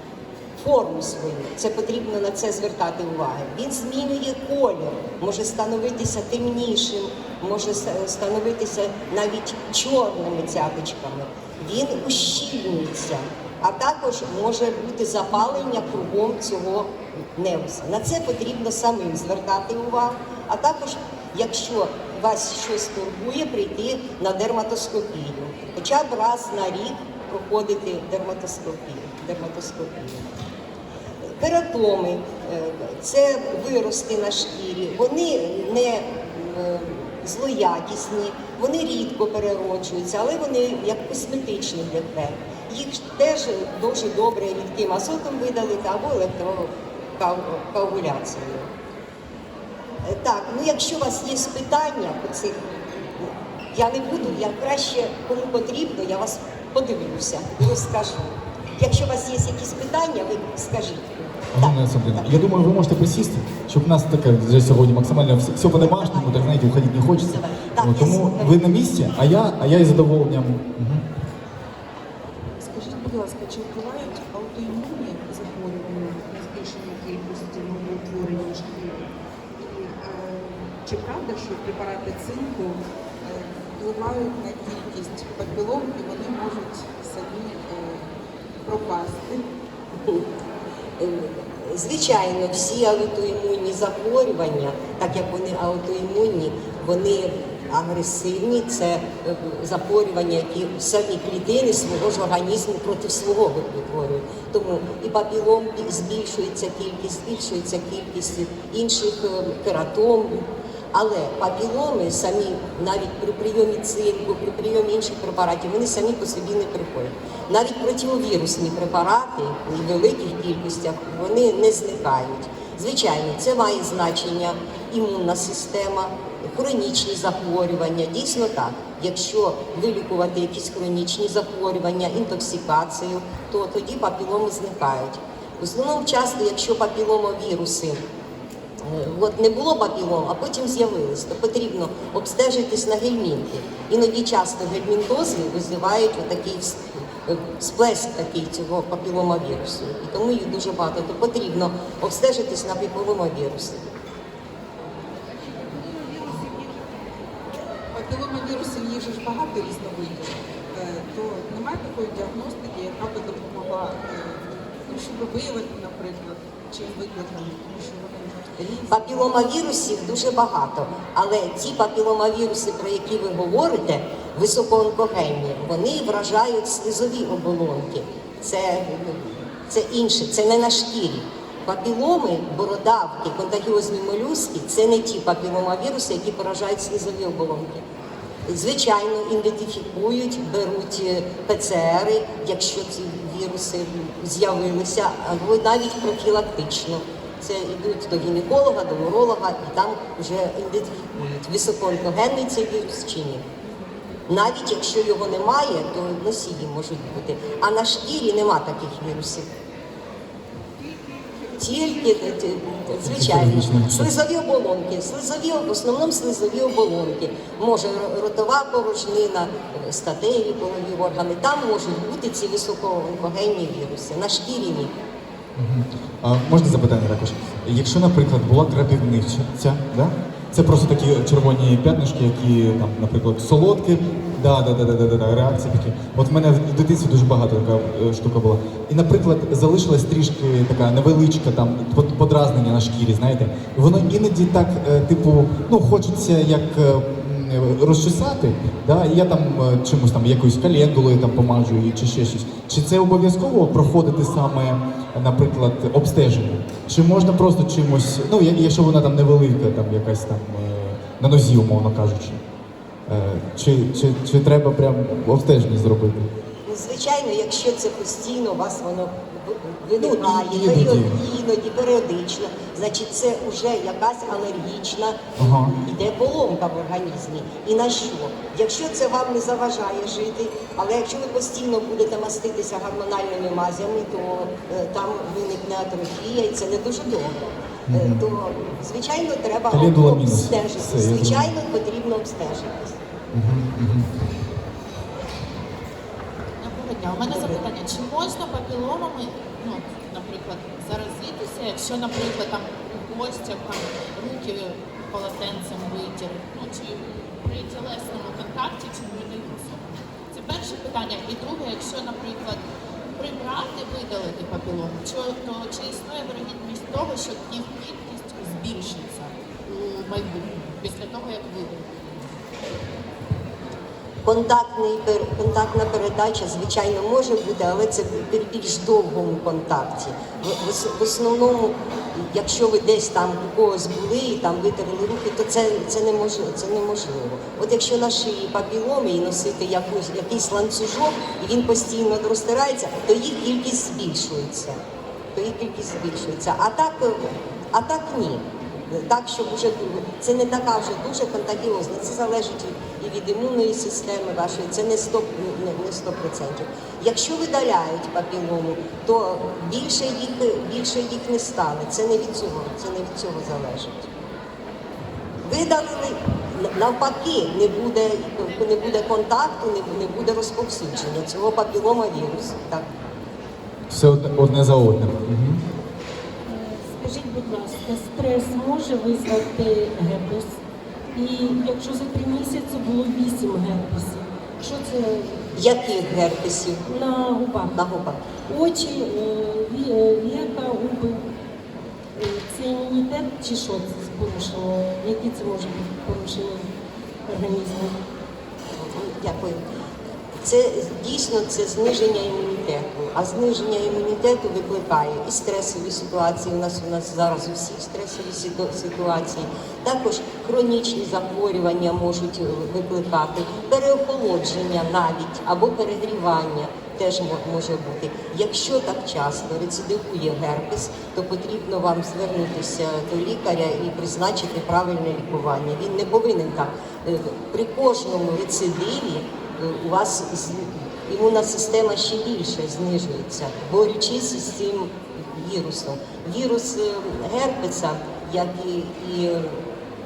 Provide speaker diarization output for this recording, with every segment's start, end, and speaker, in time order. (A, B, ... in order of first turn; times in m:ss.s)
0:00.6-0:30.3 A
0:31.4-0:48.7 A
0:50.0-0:52.6 A
0:53.2-1:02.3 A
1:01.5-1:11.0 B
1:05.9-1:06.3 A
1:07.2-1:08.6 A
1:12.6-1:29.4 C
1:31.0-2:18.0 A
2:18.8-2:33.9 A
2:35.4-2:37.0 C
2:37.9-2:49.2 C
2:48.9-3:07.8 A
3:08.5-3:23.4 A
3:24.3-3:29.4 A
3:31.0-3:31.6 C
3:31.6-3:44.9 A
3:33.0-3:34.1 B
3:45.6-4:22.4 B
4:23.1-4:26.3 B
4:26.6-4:53.0 A
4:30.0-4:31.2 B
4:35.4-4:35.7 B
4:47.9-4:48.2 B
4:49.7-4:51.5 B
4:53.3-4:54.1 B
4:56.6-5:12.6 D
5:13.2-5:22.3 D
5:24.2-5:44.8 A
5:45.3-6:04.1 A
6:05.4-6:12.9 A
6:13.9-6:15.6 B
6:16.5-6:20.6 E
6:21.1-6:25.5 E
6:25.5-6:26.8 A
6:26.8-6:27.8 E
6:27.7-6:28.2 A
6:28.4-6:31.2 E
6:32.2-6:36.7 E
6:37.3-6:37.9 E
6:38.8-6:39.6 A
6:40.4-7:19.6 A